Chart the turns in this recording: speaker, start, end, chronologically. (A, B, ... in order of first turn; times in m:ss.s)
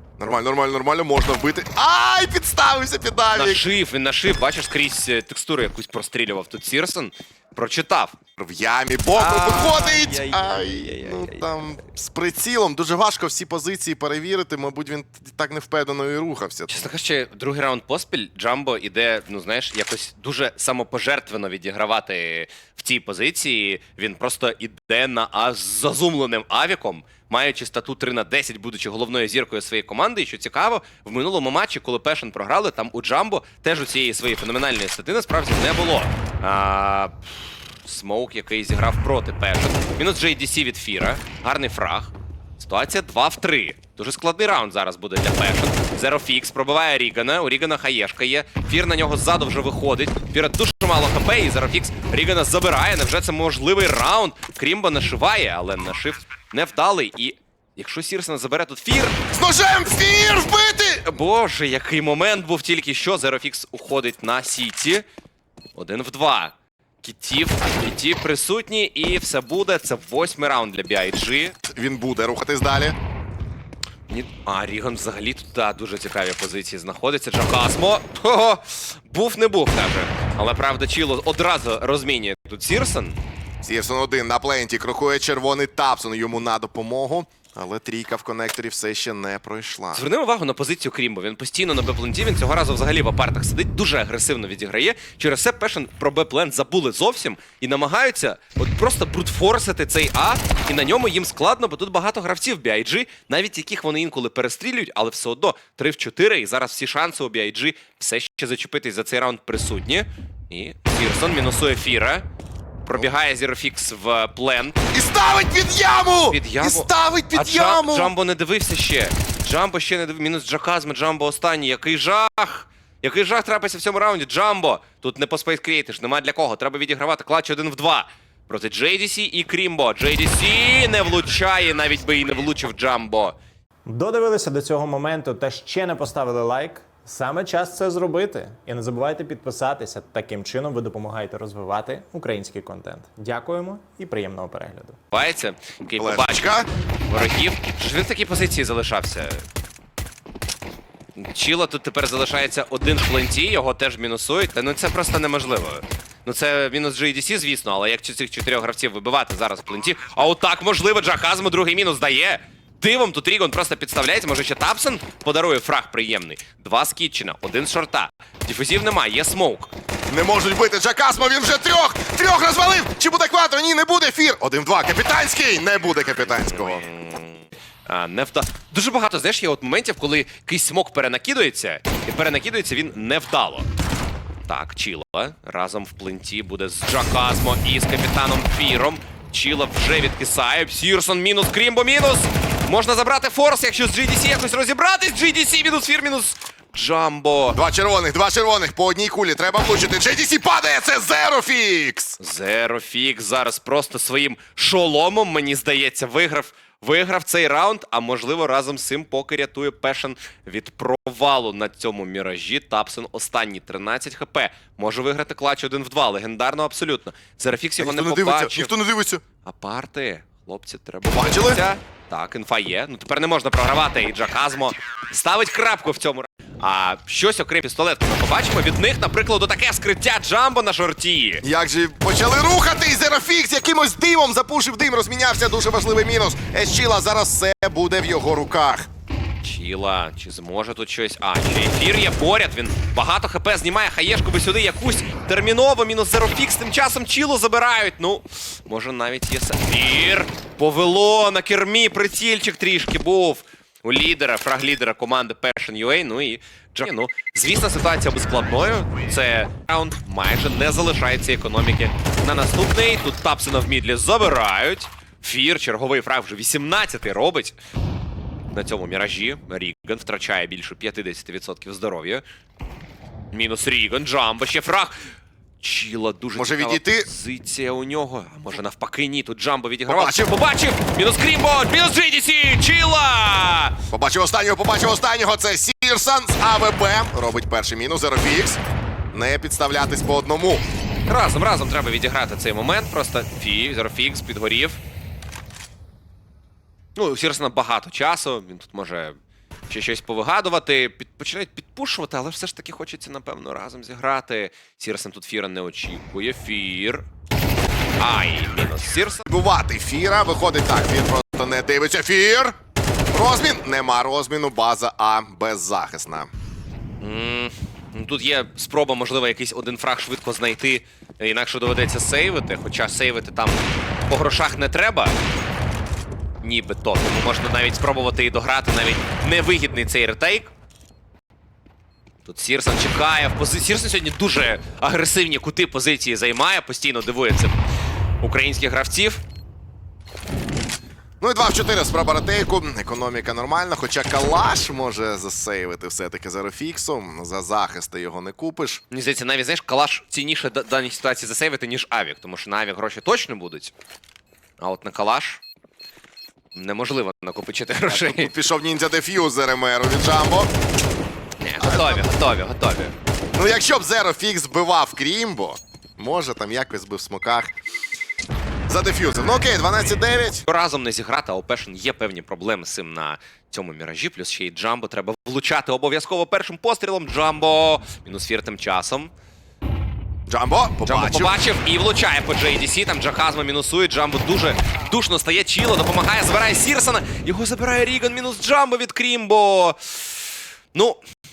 0:00.2-0:03.6 A
0:03.3-0:08.2 B
0:08.4-0:16.9 A
0:09.1-0:11.7 B
0:16.7-0:59.2 B
0:59.3-1:01.0 A
1:01.0-1:05.0 B
1:05.7-1:11.6 B
1:11.7-1:13.0 A
1:14.1-1:23.2 B
1:23.6-1:30.0 A
1:29.9-1:52.2 B
1:52.8-1:54.8 B
1:54.9-1:58.1 A
1:56.3-2:13.4 B
2:13.9-2:25.0 C
2:25.1-2:29.4 B
2:26.0-2:26.7 A
2:31.2-2:49.7 B
2:50.1-2:56.9 A
2:56.3-3:03.7 B
3:04.5-3:17.6 B
3:17.6-3:22.2 A
3:22.2-3:38.7 B
3:37.8-3:39.2 A
3:39.4-3:51.4 B
3:41.1-3:41.6 A
3:51.4-3:58.9 A
3:59.4-4:27.6 B
4:28.5-4:32.2 B
4:33.3-4:43.8 B
4:36.3-4:37.1 A
4:39.8-4:40.3 A
4:43.9-4:48.6 A
4:49.1-4:50.6 A
4:51.0-4:54.8 B
4:56.9-4:59.2 B
4:59.7-5:07.0 B
5:08.0-5:09.2 B
5:09.3-5:12.5 A
5:13.1-5:16.3 A
5:17.0-5:25.2 B
5:26.4-5:30.5 B
5:32.2-5:37.6 B
5:38.2-5:39.2 B
5:41.2-5:48.8 A
5:48.9-5:53.7 B
5:54.6-5:55.4 B
5:56.5-5:58.3 B
5:57.9-6:00.5 A
6:01.4-6:02.9 B
6:01.6-6:02.1 A
6:03.3-6:07.5 A
6:08.7-6:10.4 A
6:10.4-6:19.1 B
6:20.3-6:21.4 A
6:20.8-6:30.2 B
6:30.7-6:31.0 B